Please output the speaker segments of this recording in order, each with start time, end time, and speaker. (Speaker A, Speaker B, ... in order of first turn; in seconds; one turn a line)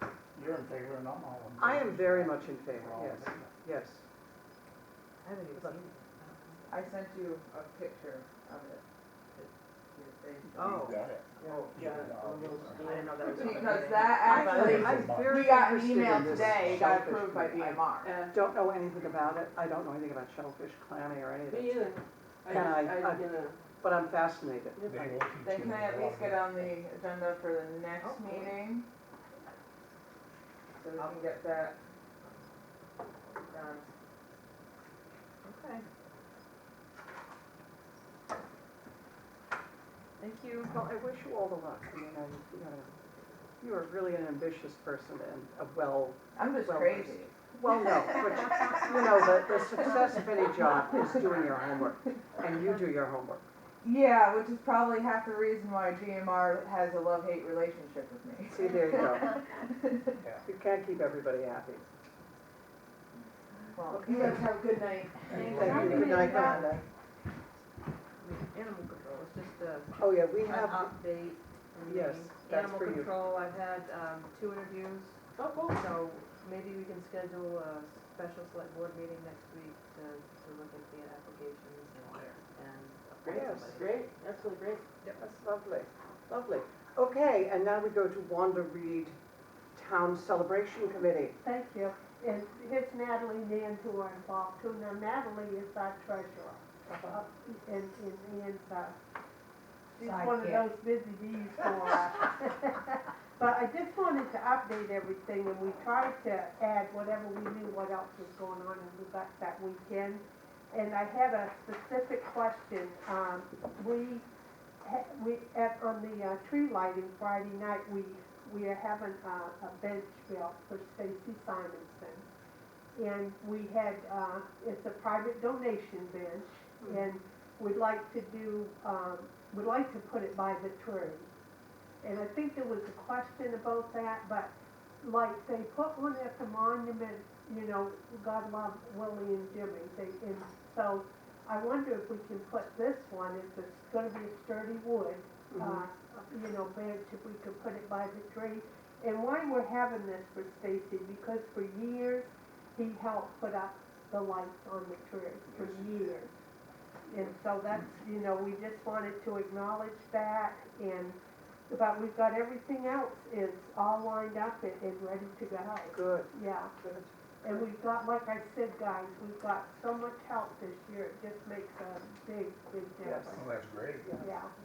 Speaker A: 0.3-3.5
Speaker B: 1.6-4.0
Speaker C: 5.2-6.8
Speaker D: 6.7-10.9
Speaker C: 10.6-11.1
Speaker A: 10.6-13.0
Speaker E: 11.4-14.0
Speaker D: 11.4-11.7
Speaker C: 12.8-14.8
Speaker D: 13.2-18.1
Speaker B: 14.2-21.9
Speaker A: 14.4-17.1
Speaker E: 18.0-18.4
Speaker E: 21.5-23.6
Speaker B: 22.5-23.2
Speaker B: 23.8-25.2
Speaker E: 24.8-25.1
Speaker A: 24.9-26.7
Speaker D: 25.4-28.9
Speaker C: 28.0-28.6
Speaker D: 30.8-31.8
Speaker D: 33.4-33.9
Speaker C: 35.4-35.9
Speaker C: 40.2-40.7
Speaker B: 40.7-42.9
Speaker B: 43.6-53.5
Speaker D: 46.4-49.3
Speaker D: 53.8-60.2
Speaker B: 58.5-59.2
Speaker B: 60.5-61.9
Speaker D: 63.7-65.9
Speaker B: 63.9-64.5
Speaker E: 64.9-66.7
Speaker A: 65.3-66.1
Speaker C: 65.3-66.7
Speaker B: 65.4-66.8
Speaker F: 65.8-66.6
Speaker C: 68.2-84.2
Speaker B: 70.0-70.9
Speaker B: 71.8-73.1
Speaker E: 75.4-75.8
Speaker E: 83.2-84.9
Speaker B: 83.3-83.7
Speaker B: 85.2-89.2
Speaker B: 89.8-91.4
Speaker F: 91.4-99.0
Speaker B: 96.9-97.2
Speaker F: 100.0-114.3
Speaker B: 100.0-100.6
Speaker F: 114.8-122.3
Speaker F: 123.0-131.3
Speaker B: 126.8-127.1
Speaker F: 132.0-156.3
Speaker B: 145.5-145.8
Speaker A: 155.5-156.0
Speaker F: 157.1-161.2
Speaker F: 161.7-166.7
Speaker B: 165.9-167.1
Speaker F: 167.4-173.5
Speaker B: 173.0-173.4
Speaker A: 173.3-174.1
Speaker B: 174.0-174.3
Speaker F: 174.2-174.5